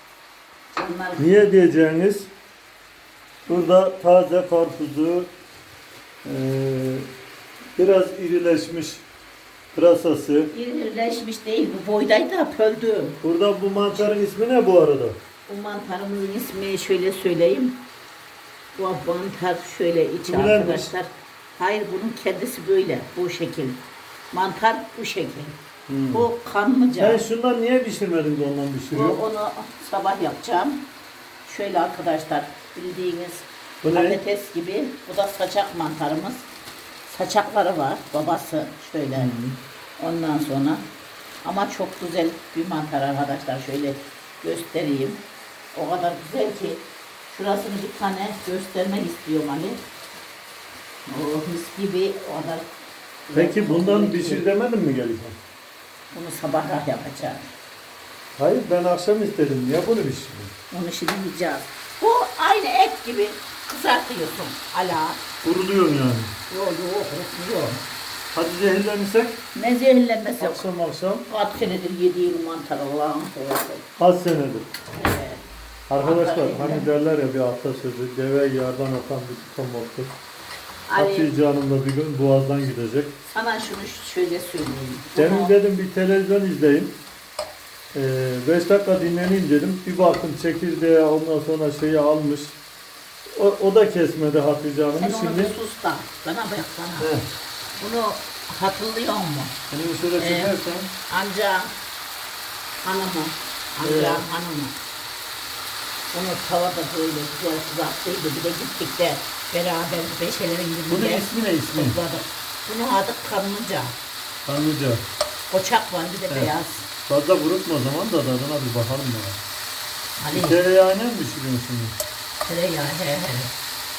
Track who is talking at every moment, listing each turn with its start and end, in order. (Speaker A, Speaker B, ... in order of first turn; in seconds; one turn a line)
Speaker A: 0.8-1.4
Speaker B: 1.2-2.3
Speaker B: 3.5-5.3
Speaker B: 6.2-7.1
Speaker B: 7.8-9.0
Speaker B: 9.7-10.5
Speaker A: 10.5-13.2
Speaker B: 13.2-15.2
Speaker A: 15.5-17.8
Speaker A: 18.8-23.8
Speaker B: 20.2-20.9
Speaker A: 24.3-25.6
Speaker B: 25.9-26.3
Speaker A: 26.1-27.2
Speaker B: 27.0-29.2
Speaker A: 28.9-30.8
Speaker A: 31.5-36.5
Speaker B: 33.8-34.2
Speaker A: 37.1-39.4
Speaker B: 39.2-39.6
Speaker A: 40.0-40.8
Speaker A: 41.4-45.2
Speaker A: 45.7-49.8
Speaker A: 51.1-52.7
Speaker A: 53.3-54.4
Speaker B: 53.3-55.4
Speaker A: 56.1-57.5
Speaker B: 58.4-60.5
Speaker A: 60.7-65.2
Speaker B: 65.4-66.3
Speaker A: 66.5-67.8
Speaker B: 68.3-69.4
Speaker A: 69.5-70.6
Speaker B: 70.4-71.3
Speaker A: 71.3-73.8
Speaker B: 74.0-74.7
Speaker A: 74.9-75.4
Speaker B: 75.9-80.1
Speaker A: 76.0-76.9
Speaker A: 80.9-81.3
Speaker B: 81.0-83.2
Speaker A: 83.3-85.5
Speaker B: 85.1-87.0
Speaker B: 87.9-92.6
Speaker B: 93.3-95.5
Speaker A: 95.0-97.1
Speaker B: 97.0-97.3
Speaker A: 97.8-99.6
Speaker B: 99.7-100.9
Speaker A: 100.2-100.5
Speaker A: 101.1-101.7
Speaker A: 102.8-104.8
Speaker B: 103.8-104.2
Speaker A: 106.1-114.0
Speaker B: 110.9-112.0
Speaker B: 114.5-115.0
Speaker A: 115.5-116.9
Speaker B: 117.1-119.4
Speaker A: 120.2-120.6
Speaker B: 120.3-122.0
Speaker A: 122.4-123.5